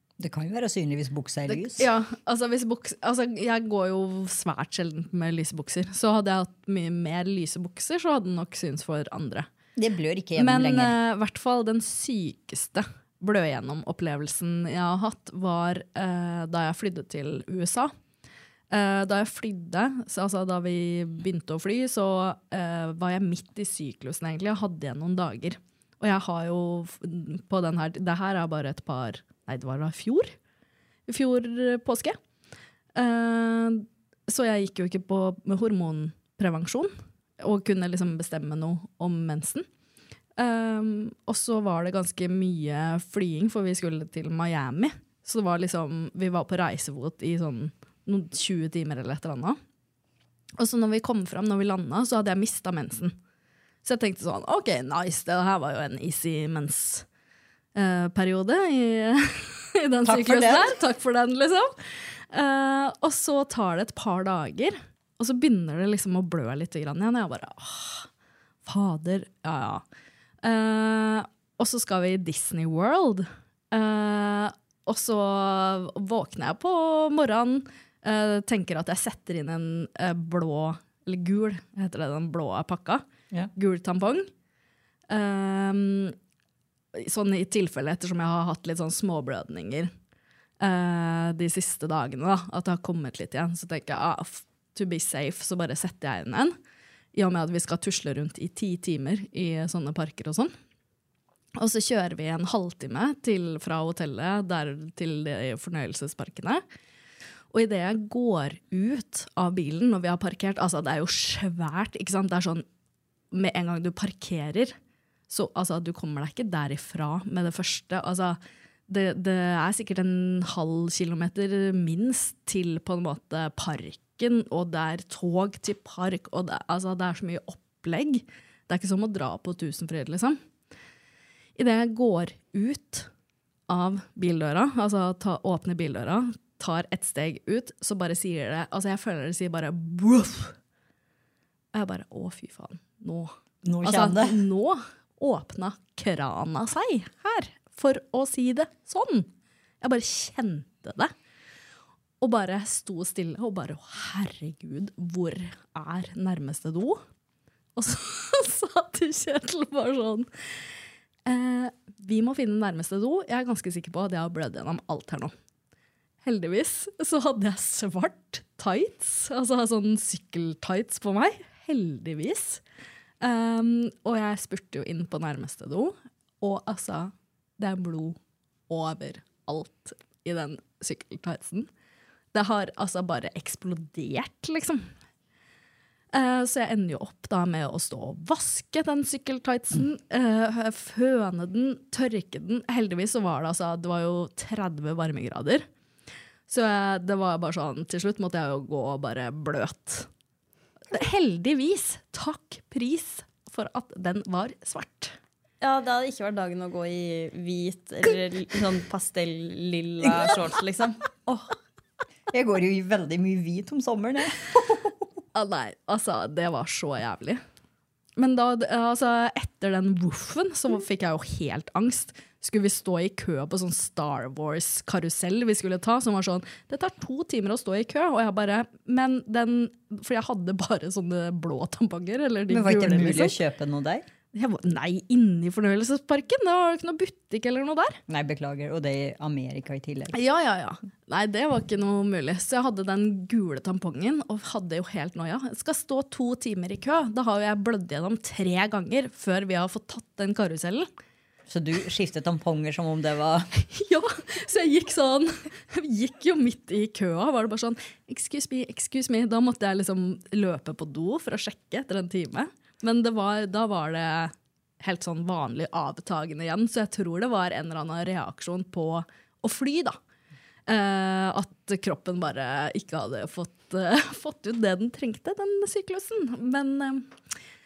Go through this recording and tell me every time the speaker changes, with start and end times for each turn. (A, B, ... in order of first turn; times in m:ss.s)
0:00.2-0:01.9 A
0:01.5-0:09.5 B
0:09.8-0:11.0 A
0:10.4-0:17.9 B
0:18.7-0:30.3 B
0:31.1-0:32.2 B
0:32.9-0:39.6 B
0:40.4-0:49.6 B
0:50.6-0:53.1 B
0:53.8-0:57.0 B
0:57.7-1:01.7 B
1:00.0-1:00.8 A
1:02.3-1:08.1 B
1:08.6-1:09.8 B
1:10.4-1:23.0 B
1:23.5-1:24.3 B
1:25.1-1:26.1 B
1:26.9-1:29.9 B
1:30.6-1:36.5 B
1:37.1-1:40.5 B
1:41.6-1:46.6 B
1:47.5-1:52.6 B
1:53.3-1:54.8 B
1:55.3-2:10.4 B
2:11.6-2:13.1 B
2:13.7-2:20.5 B
2:21.7-2:29.3 B
2:23.6-2:24.4 A
2:29.8-2:31.1 B
2:32.2-2:37.0 B
2:37.8-2:40.3 B
2:41.2-2:45.3 B
2:46.2-2:52.6 B
2:53.2-3:01.7 B
3:02.3-3:04.8 B
3:06.1-3:15.6 B
3:16.5-3:20.1 B
3:20.9-3:25.1 B
3:25.6-3:31.1 C
3:32.3-3:35.0 A
3:35.3-3:37.4 B
3:38.2-3:53.4 B
3:52.5-3:54.0 A
3:54.3-3:58.0 B
3:58.1-4:00.2 A
4:00.1-4:10.9 B
4:11.5-4:13.5 A
4:13.7-4:30.0 B
4:30.7-4:37.1 B